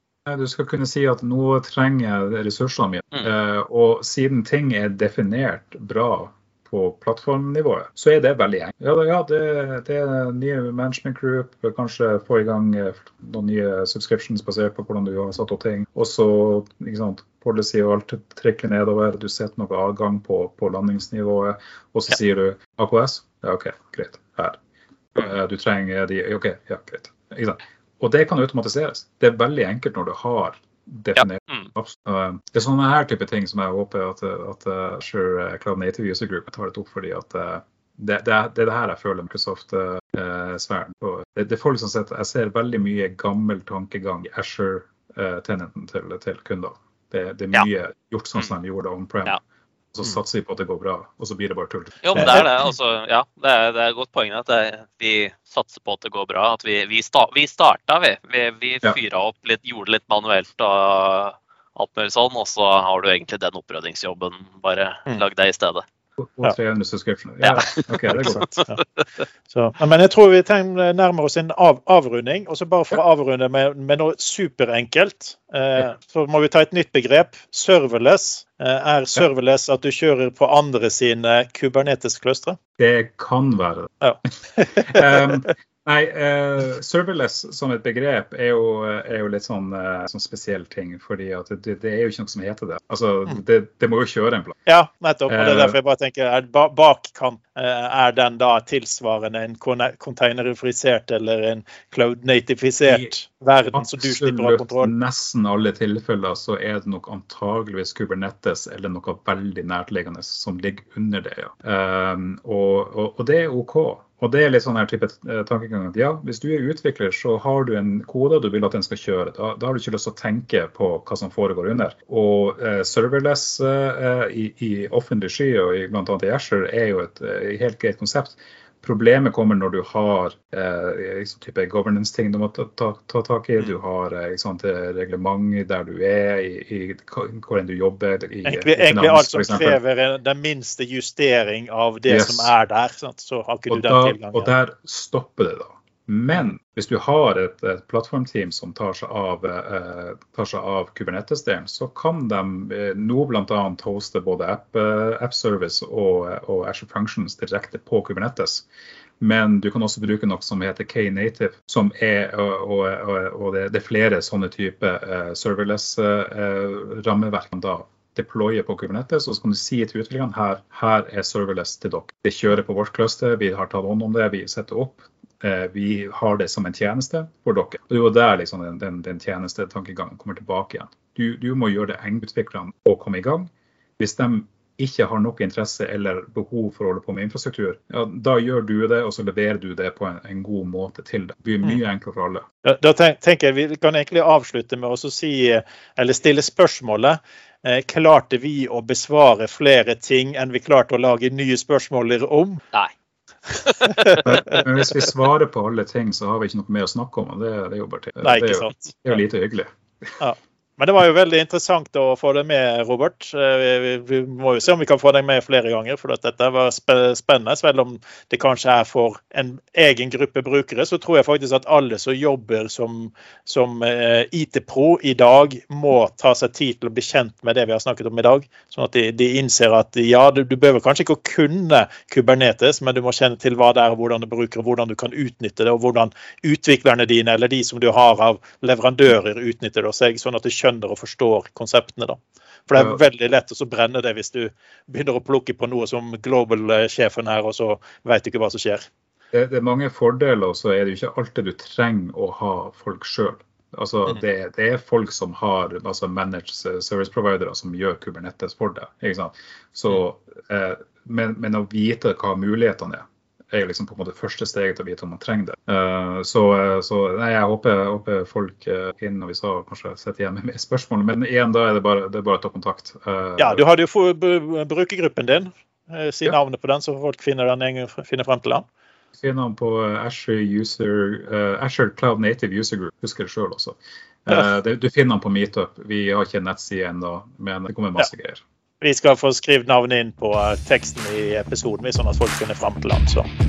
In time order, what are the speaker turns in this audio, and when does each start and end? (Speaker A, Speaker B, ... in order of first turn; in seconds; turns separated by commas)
Speaker A: 0.2-24.6, Speaker A: 25.1-49.4, Speaker B: 31.1-31.7, Speaker A: 49.9-52.5, Speaker B: 52.0-65.8, Speaker A: 66.2-68.6, Speaker B: 67.4-69.0, Speaker C: 68.5-68.8, Speaker C: 69.5-82.6, Speaker A: 82.8-83.9, Speaker C: 84.0-85.5, Speaker A: 84.8-94.5, Speaker C: 94.7-104.9, Speaker A: 95.3-95.8, Speaker A: 102.9-103.1, Speaker A: 103.7-139.8, Speaker C: 138.4-144.5, Speaker A: 142.1-142.5, Speaker A: 143.7-158.7, Speaker A: 159.2-192.4, Speaker C: 192.6-202.6, Speaker B: 203.5-204.2, Speaker C: 203.9-204.6, Speaker A: 204.2-209.7, Speaker C: 208.2-209.0, Speaker C: 210.2-248.9, Speaker A: 242.7-243.0, Speaker A: 249.3-273.6, Speaker C: 273.4-278.6, Speaker A: 279.2-288.4, Speaker C: 288.8-293.3